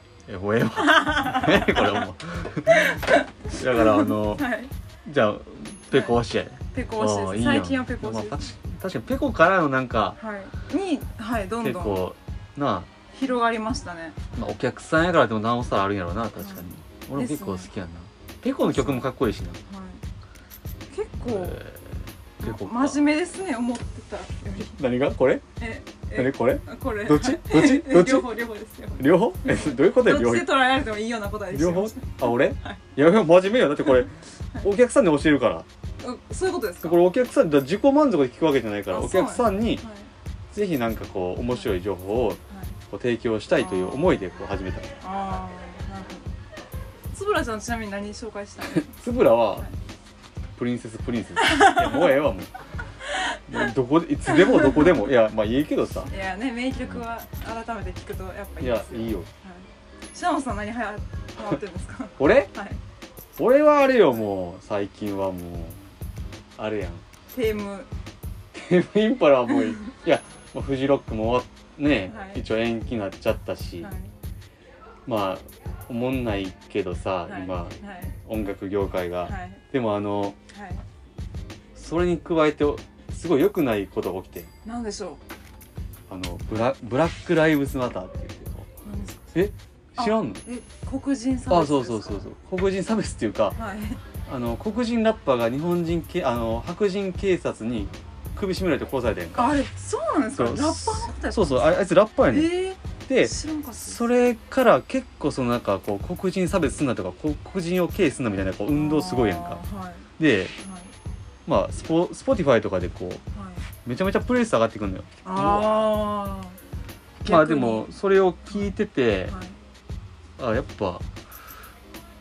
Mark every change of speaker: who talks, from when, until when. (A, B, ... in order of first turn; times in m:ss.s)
0:00.3-0:04.5 A
0:00.9-0:02.0 B
0:02.7-0:04.7 B
0:05.0-0:10.2 A
0:05.9-0:06.2 B
0:06.7-0:08.4 B
0:10.2-0:12.0 B
0:11.6-0:12.9 A
0:13.1-0:14.2 B
0:14.3-0:19.6 A
0:17.1-0:17.7 B
0:18.6-0:19.1 B
0:19.6-0:20.0 B
0:20.9-0:21.6 B
0:21.2-0:23.0 A
0:22.4-0:24.7 B
0:24.5-0:25.4 A
0:25.6-0:32.8 B
0:26.1-0:28.3 A
0:29.0-0:30.5 A
0:31.5-0:35.7 A
0:36.0-0:37.0 B
0:36.8-0:39.8 A
0:38.9-0:40.1 B
0:40.5-0:44.9 A
0:42.5-0:42.8 B
0:43.5-0:44.2 B
0:45.0-0:46.3 B
0:47.1-0:48.9 B
0:48.6-0:49.7 A
0:50.6-0:52.5 A
0:51.5-0:51.8 B
0:53.5-0:56.1 A
0:56.1-1:02.8 B
0:58.6-0:59.3 A
1:02.2-1:02.5 A
1:03.4-1:05.9 A
1:06.6-1:07.0 A
1:07.3-1:07.9 B
1:08.5-1:13.9 A
1:12.0-1:12.4 B
1:13.8-1:14.1 B
1:15.0-1:20.4 A
1:17.3-1:18.2 B
1:19.2-1:19.6 B
1:20.5-1:20.8 B
1:21.7-1:24.5 A
1:24.6-1:25.2 B
1:26.1-1:28.7 A
1:28.8-1:29.3 B
1:29.3-1:30.4 A
1:30.0-1:32.3 B
1:31.5-1:33.6 A
1:33.5-1:34.0 B
1:34.2-1:39.6 A
1:39.3-1:44.1 B
1:40.3-1:42.5 A
1:43.1-1:49.6 A
1:48.7-1:50.1 B
1:50.2-1:50.5 A
1:50.6-1:50.9 B
1:51.4-1:53.2 A
1:53.3-1:53.6 B
1:53.8-1:55.9 A
1:55.2-1:56.6 B
1:57.2-1:57.9 B
1:57.2-1:59.3 A
1:59.2-1:59.6 B
2:00.4-2:01.0 A